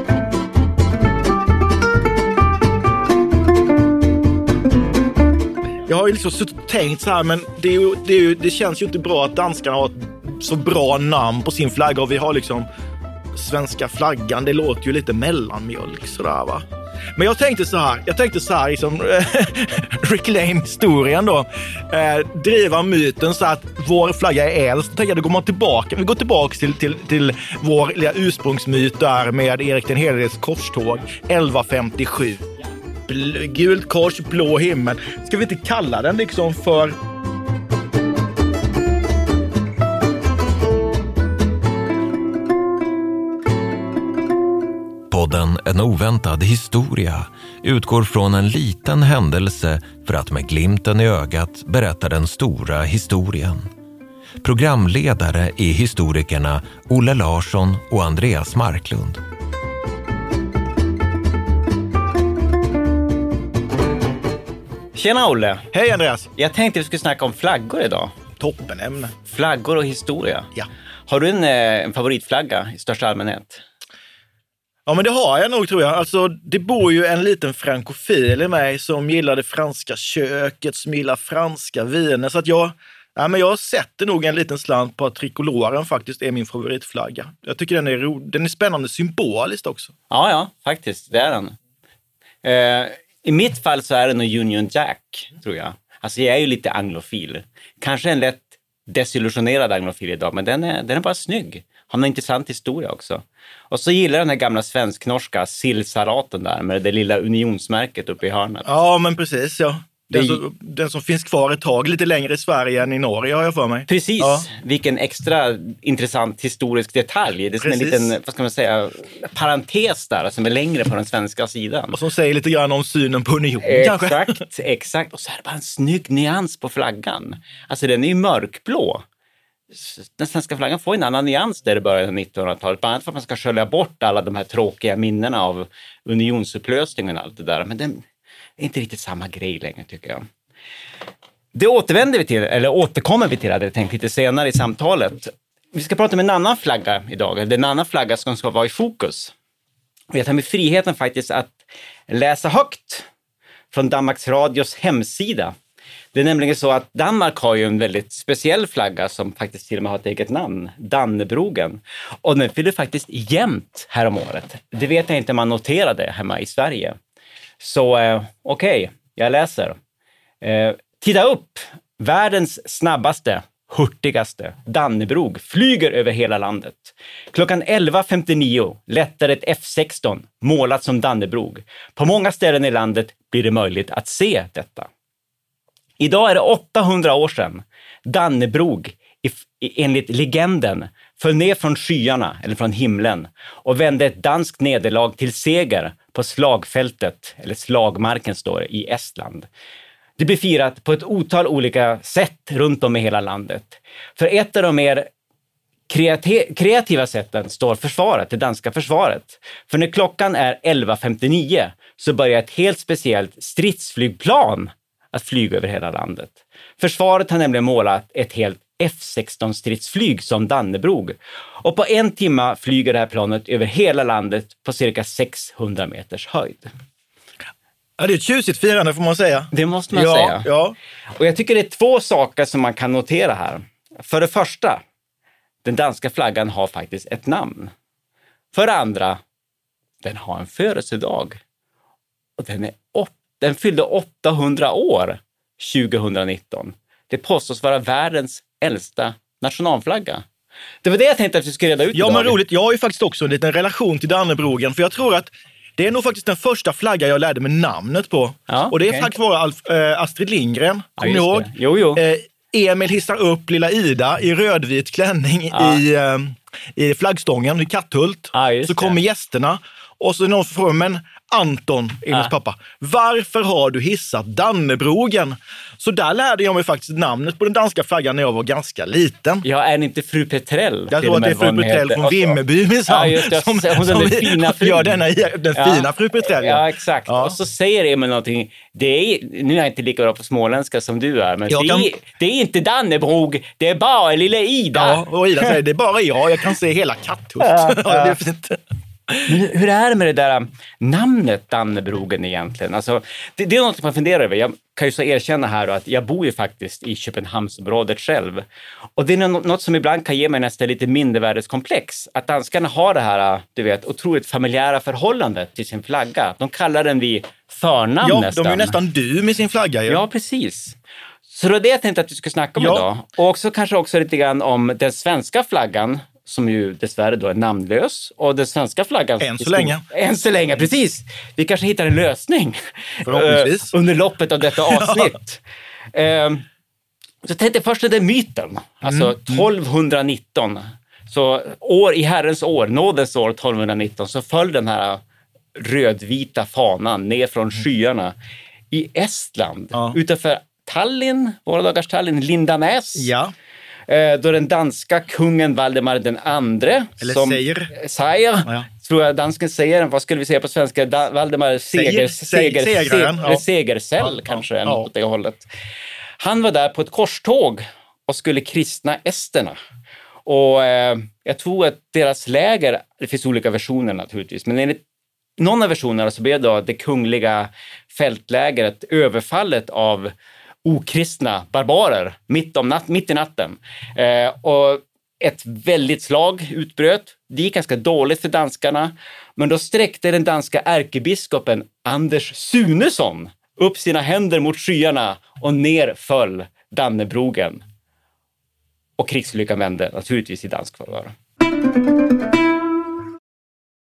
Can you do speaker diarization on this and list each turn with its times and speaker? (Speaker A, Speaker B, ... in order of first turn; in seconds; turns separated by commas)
Speaker A: 5.9-12.7, Speaker A: 13.3-16.6, Speaker A: 17.2-32.5, Speaker A: 33.1-37.0, Speaker B: 45.1-53.7, Speaker B: 54.4-59.2, Speaker C: 65.0-65.7, Speaker A: 65.7-66.3, Speaker C: 66.4-68.1, Speaker A: 68.4-69.1, Speaker C: 69.3-70.5, Speaker C: 71.1-73.6, Speaker A: 74.9-89.9, Speaker C: 90.1-91.6, Speaker C: 92.4-108.7, Speaker A: 108.7-114.5, Speaker C: 110.1-110.4, Speaker C: 113.9-122.0, Speaker A: 117.6-118.1, Speaker A: 121.9-124.4, Speaker C: 123.6-129.0, Speaker C: 129.7-138.0, Speaker C: 138.6-140.2, Speaker C: 141.5-149.3, Speaker C: 150.1-153.1, Speaker C: 153.7-155.5, Speaker C: 156.1-167.0, Speaker C: 167.6-169.8, Speaker C: 170.4-184.9, Speaker C: 186.0-199.5, Speaker C: 200.2-205.1, Speaker C: 205.9-226.7, Speaker A: 228.0-230.8, Speaker C: 229.5-230.5, Speaker C: 231.2-234.8, Speaker C: 235.6-237.7, Speaker C: 238.5-239.2, Speaker C: 240.0-241.4, Speaker C: 242.4-250.2, Speaker C: 250.8-252.4, Speaker A: 251.9-279.4, Speaker C: 258.5-259.1, Speaker C: 261.0-262.0, Speaker C: 265.5-265.8, Speaker C: 268.3-269.0, Speaker C: 279.4-284.9, Speaker A: 280.9-287.4, Speaker C: 285.6-295.6, Speaker A: 291.5-291.9, Speaker A: 294.7-299.4, Speaker C: 297.4-298.2, Speaker C: 299.3-308.4, Speaker C: 309.0-318.8, Speaker A: 318.0-320.0, Speaker C: 319.9-320.8, Speaker C: 321.3-335.4, Speaker A: 322.6-322.9, Speaker A: 329.2-329.8, Speaker A: 333.1-333.7, Speaker A: 334.7-335.1, Speaker C: 335.9-336.4, Speaker C: 337.2-345.0, Speaker A: 338.8-339.5, Speaker C: 345.6-348.1, Speaker C: 348.7-353.1, Speaker A: 349.7-350.0, Speaker A: 353.0-353.3, Speaker C: 353.9-365.5, Speaker A: 357.0-357.7, Speaker A: 361.7-363.4, Speaker A: 364.0-364.9, Speaker C: 366.2-369.6, Speaker C: 370.3-374.8, Speaker C: 375.4-380.1, Speaker C: 380.6-397.6, Speaker C: 399.0-401.1